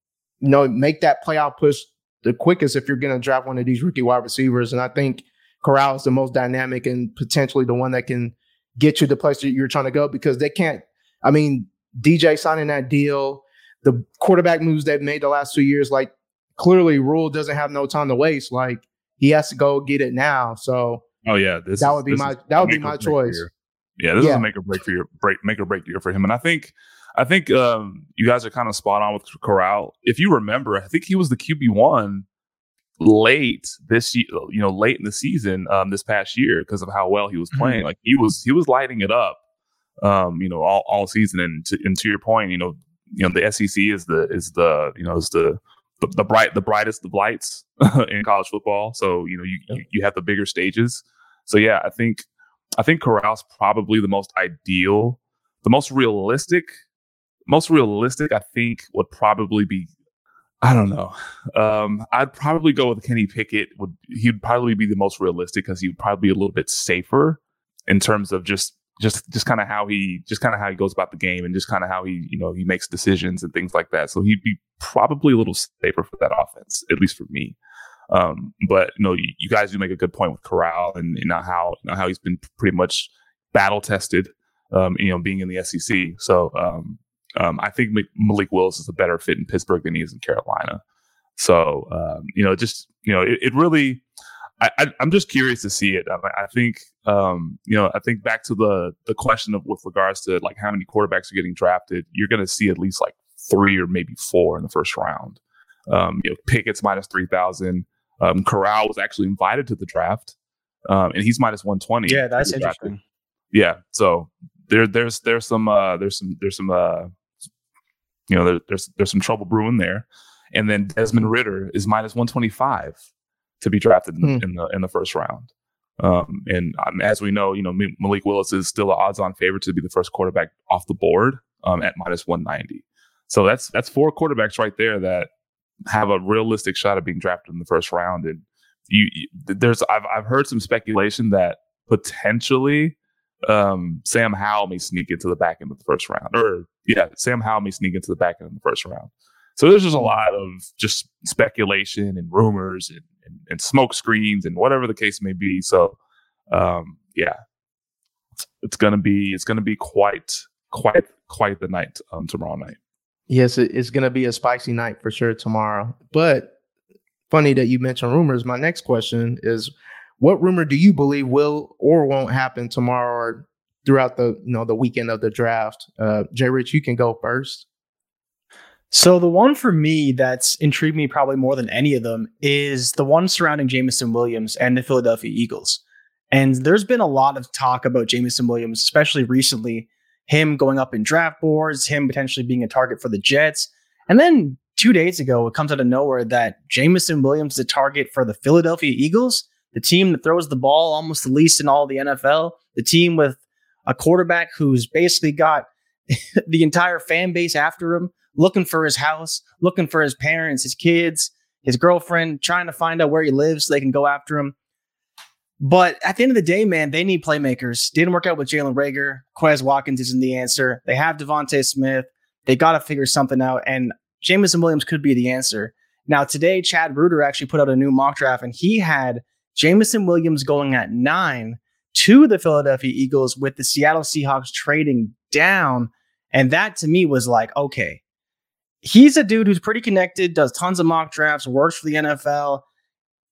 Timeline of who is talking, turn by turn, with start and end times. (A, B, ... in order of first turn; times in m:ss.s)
0:00.4-0:21.0 A
0:21.2-0:32.2 B
0:21.8-0:23.4 A
0:24.2-0:24.5 A
0:33.0-0:39.4 B
0:37.5-0:37.8 C
0:40.0-0:52.3 B
0:52.8-0:56.7 B
0:57.5-0:59.9 B
1:00.6-1:17.6 B
1:18.1-1:30.8 B
1:31.4-1:34.0 B
1:34.6-1:50.3 B
1:50.9-1:52.9 B
1:52.1-1:53.0 C
1:53.5-1:57.1 B
1:58.3-2:03.0 B
2:03.6-2:05.5 B
2:06.0-2:15.3 B
2:15.9-2:36.0 B
2:36.5-2:37.4 B
2:38.6-2:42.8 B
2:43.3-2:46.5 A
2:47.3-2:57.7 A
2:58.9-3:34.5 C
3:35.6-3:58.0 C
3:58.8-4:02.6 C